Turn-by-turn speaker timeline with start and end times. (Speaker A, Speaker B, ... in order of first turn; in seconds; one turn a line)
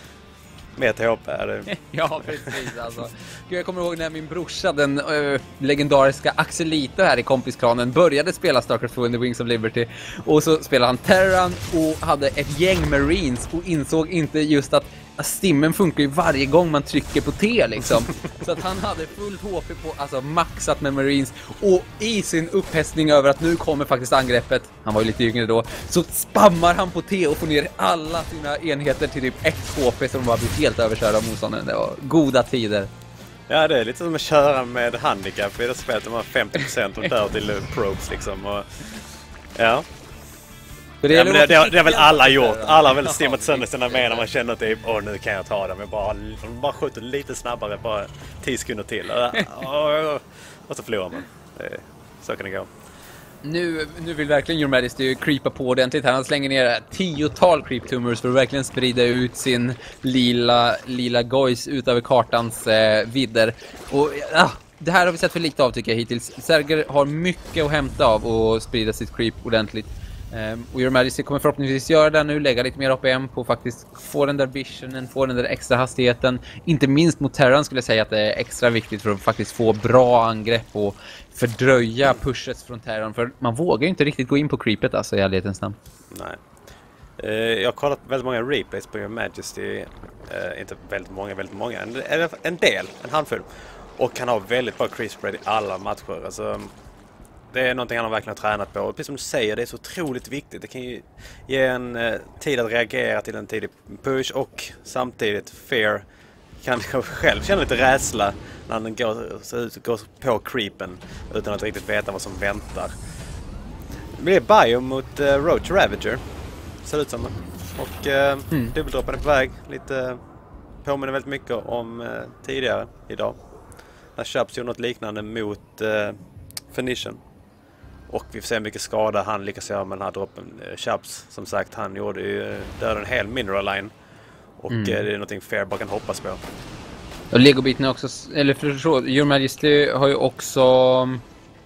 Speaker A: 0.8-2.7
Speaker B: 1.7-32.9
Speaker A: 33.5-38.8
Speaker A: 39.5-39.9
Speaker B: 41.0-44.2
Speaker A: 41.1-52.7
Speaker B: 53.4-85.8
Speaker A: 86.1-86.4
Speaker A: 87.2-96.7
Speaker A: 97.5-106.0
Speaker A: 106.6-112.9
Speaker A: 114.2-116.2
Speaker A: 116.8-120.2
Speaker A: 120.8-123.4
Speaker A: 124.2-126.2
Speaker A: 126.7-127.2
Speaker A: 128.1-133.9
Speaker A: 134.6-136.4
Speaker B: 134.7-135.0
Speaker B: 137.3-141.2